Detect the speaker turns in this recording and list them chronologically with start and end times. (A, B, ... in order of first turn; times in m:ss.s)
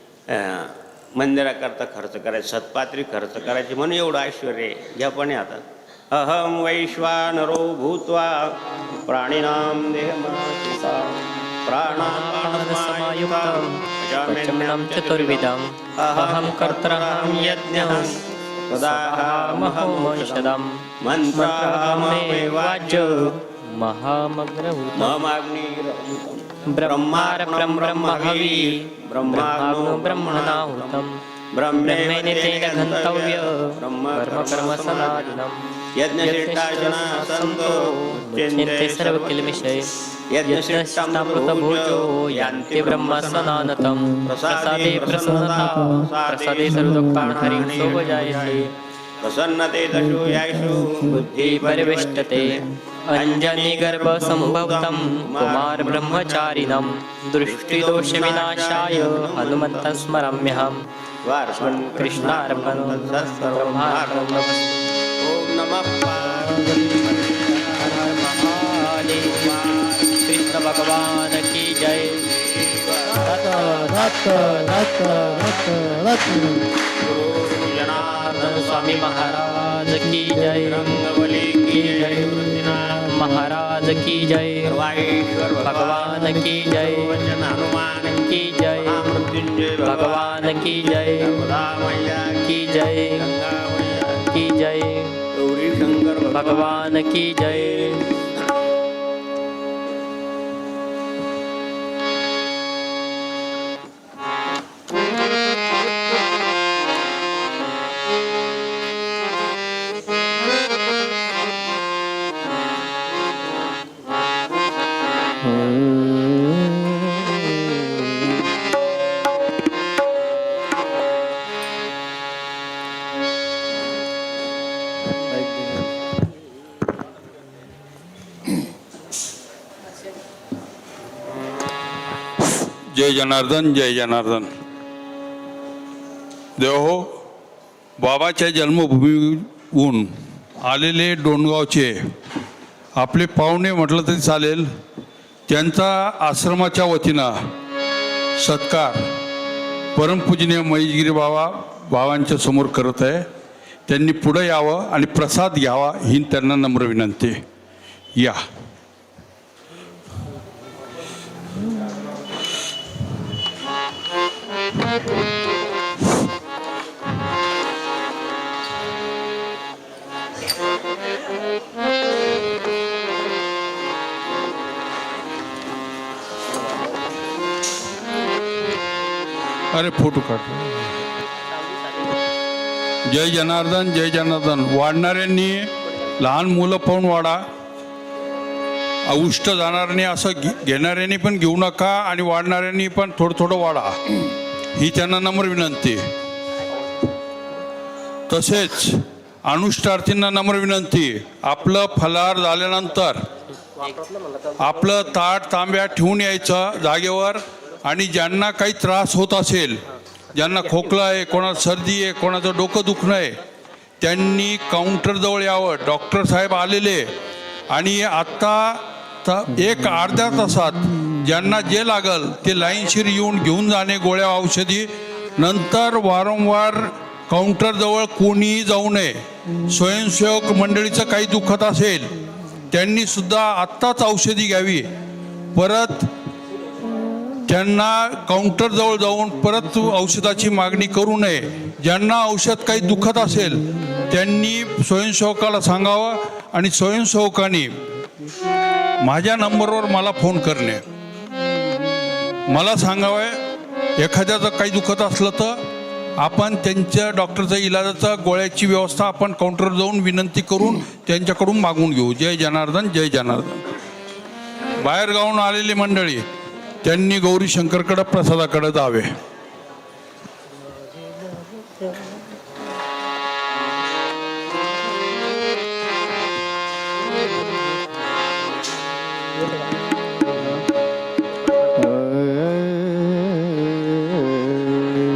0:00.3-0:23.3 A
0:11.8-0:18.1 B
0:18.7-0:20.8 B
0:21.3-0:25.2 B
0:24.9-0:35.4 A
0:26.7-0:31.2 B
0:31.7-0:39.9 B
0:35.9-0:39.7 A
0:40.3-0:48.7 A
0:40.4-0:48.7 B
0:49.2-0:56.9 A
0:50.9-1:00.8 B
0:57.4-1:00.7 A
1:01.2-1:04.5 A
1:01.6-1:04.8 B
1:05.2-1:11.1 A
1:07.8-1:09.6 B
1:10.2-1:12.2 B
1:12.2-1:16.3 A
1:13.2-1:16.5 B
1:16.8-1:23.1 A
1:18.1-1:21.0 B
1:21.7-1:24.8 B
1:24.6-1:34.3 A
1:25.6-1:27.3 B
1:28.1-1:29.2 B
1:29.8-1:31.4 B
1:32.4-1:33.3 B
1:34.3-1:35.2 B
1:35.3-1:38.2 A
1:36.3-1:38.1 B
2:12.9-2:14.5 C
2:16.6-2:17.1 C
2:18.0-2:20.1 C
2:20.6-2:22.0 C
2:23.0-2:24.7 C
2:25.5-2:27.3 C
2:28.4-2:29.0 C
2:29.9-2:33.2 C
2:33.9-2:37.4 C
2:59.7-3:01.0 C
3:03.1-3:07.4 C
3:09.1-3:16.0 C
3:18.3-3:23.2 C
3:24.6-3:29.8 C
3:30.3-3:33.3 C
3:34.0-3:37.1 C
3:37.7-3:49.1 C
3:49.7-3:52.1 C
3:52.7-3:54.8 C
3:55.5-3:56.1 C
3:57.5-4:07.7 C
4:09.0-4:10.8 C
4:12.5-4:13.3 C
4:14.0-4:15.5 C
4:16.2-4:23.6 C
4:24.8-4:26.2 C
4:26.8-4:29.1 C